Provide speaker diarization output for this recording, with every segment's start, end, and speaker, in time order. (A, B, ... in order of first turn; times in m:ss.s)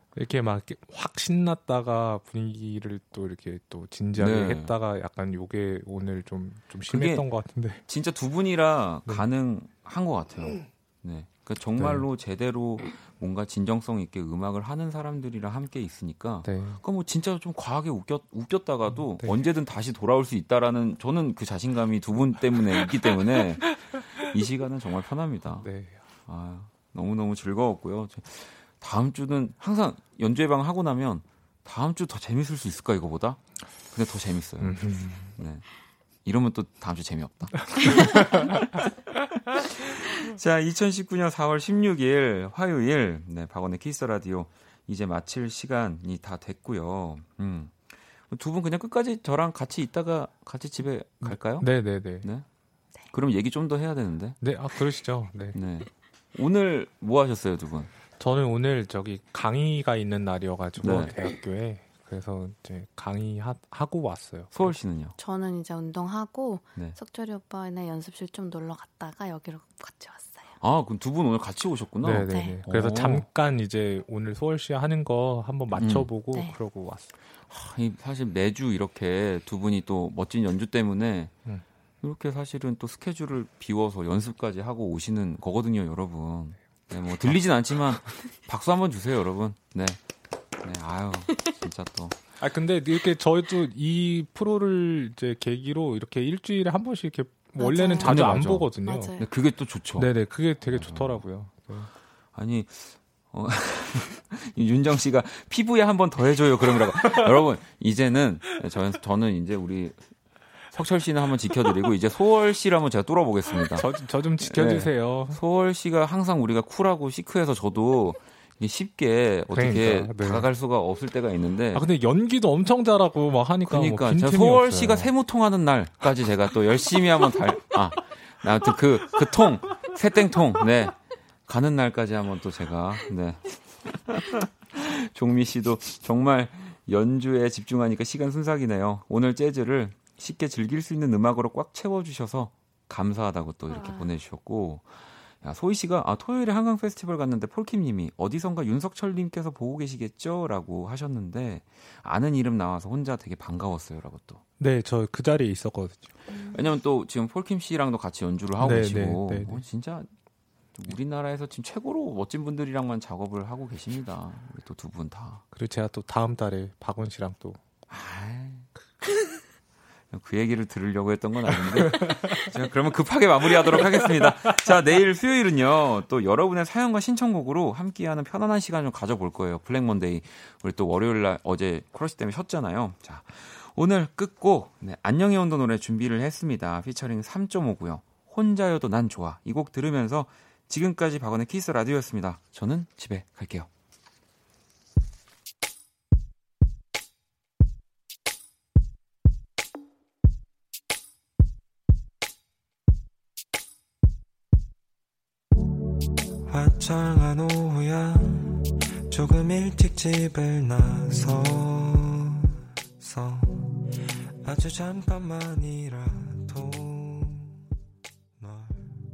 0:00.1-0:07.8 A
0:04.2-0:04.7 B
0:06.9-0:07.2 B
0:07.8-0:25.7 B
0:11.8-0:12.0 A
0:16.4-0:16.8 A
0:18.9-0:19.4 A
0:25.5-0:26.0 A
0:26.2-0:35.6 B
0:34.6-0:35.3 A
0:36.2-0:38.8 B
0:37.6-0:38.5 A
0:39.5-0:52.4 B
0:51.2-0:52.3 A
0:53.1-0:54.4 B
0:54.4-0:55.6 A
0:55.5-0:57.9 B
0:58.2-1:04.7 A
1:00.8-1:01.2 B
1:04.5-1:05.1 B
1:05.2-1:10.5 C
1:10.6-1:13.3 B
1:12.0-1:17.1 A
1:12.3-1:12.6 C
1:15.7-1:16.1 B
1:17.5-1:21.3 B
1:22.0-1:30.0 B
1:30.6-1:32.2 B
1:32.4-1:39.2 A
1:37.6-1:39.3 C
1:38.0-1:40.1 B
1:39.9-1:41.9 A
1:40.6-1:41.2 B
1:42.3-1:50.0 B
1:50.7-1:53.9 B
1:53.6-1:55.4 A
1:54.4-2:01.8 B
1:59.5-2:00.5 A
2:01.7-2:05.1 A
2:03.7-2:34.4 B
2:23.7-2:24.1 C
2:34.6-2:36.1 A
2:36.5-2:40.1 B
2:38.6-2:39.6 A
2:40.7-2:45.4 B
2:45.5-2:47.6 A
2:47.9-2:48.7 B
2:50.1-3:13.7 B
2:51.7-2:52.4 A
2:54.0-2:54.2 A
3:26.5-3:28.4 D
3:29.1-3:32.1 D
3:33.0-3:33.4 D
3:34.4-3:37.4 D
3:38.4-3:38.7 D